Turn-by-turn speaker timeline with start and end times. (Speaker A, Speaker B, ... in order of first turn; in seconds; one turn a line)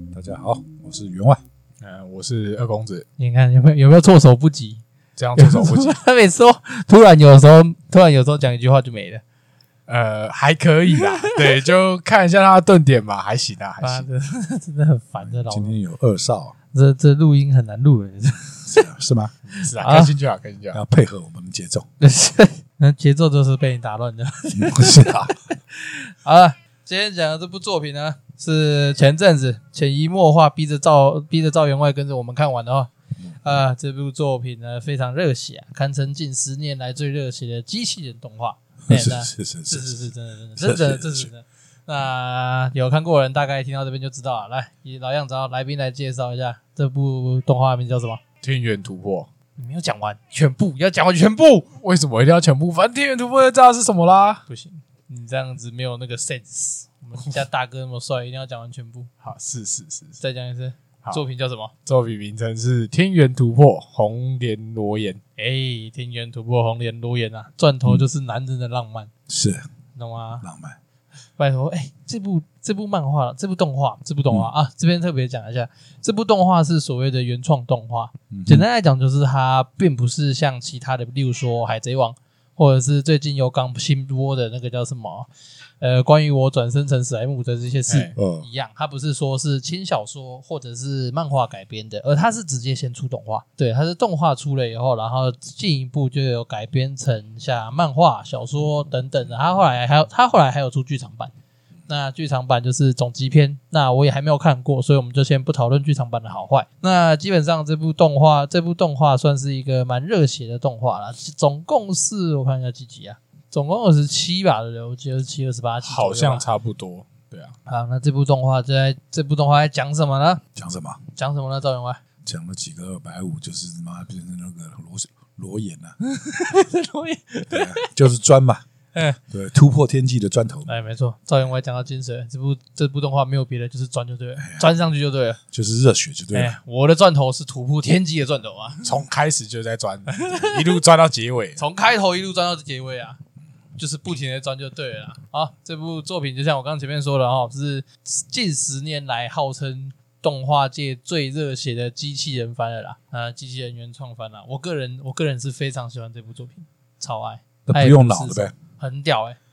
Speaker A: 0.1-1.4
Speaker B: 1.8-3.0
Speaker C: 3.2-4.8
Speaker B: 5.2-6.0
Speaker C: 5.3-9.2
Speaker B: 9.9-14.1
Speaker C: 10.9-11.6
Speaker C: 13.8-15.8
Speaker A: 15.2-16.5
Speaker C: 16.7-18.9
Speaker A: 18.7-19.3
Speaker B: 19.5-20.8
Speaker C: 19.6-20.2
Speaker A: 20.7-21.9
Speaker C: 22.0-48.2
Speaker A: 24.5-25.3
Speaker A: 38.9-40.0
Speaker A: 40.6-41.3
Speaker B: 48.4-49.3
Speaker C: 49.6-51.7
Speaker B: 51.8-54.4
Speaker C: 54.5-59.1
Speaker B: 59.2-60.2
Speaker C: 60.2-61.7
Speaker B: 61.9-65.2
Speaker C: 65.4-69.1
Speaker A: 69.3-69.7
Speaker C: 69.9-70.4
Speaker A: 70.4-70.8
Speaker C: 71.4-85.3
Speaker A: 78.3-78.7
Speaker C: 85.8-101.3
Speaker B: 87.9-88.1
Speaker A: 88.2-88.5
Speaker C: 101.9-116.5
Speaker B: 115.8-117.5
Speaker C: 117.7-120.4
Speaker A: 120.5-121.0
Speaker C: 121.1-122.0
Speaker A: 122.2-126.0
Speaker C: 126.0-127.9
Speaker A: 127.5-128.6
Speaker C: 128.9-129.2
Speaker A: 129.3-130.7
Speaker C: 130.7-135.4
Speaker A: 134.4-134.7
Speaker A: 135.5-136.6
Speaker C: 136.3-138.9
Speaker B: 138.8-141.6
Speaker C: 140.1-140.8
Speaker C: 141.6-143.2
Speaker C: 143.8-159.4
Speaker A: 157.7-158.5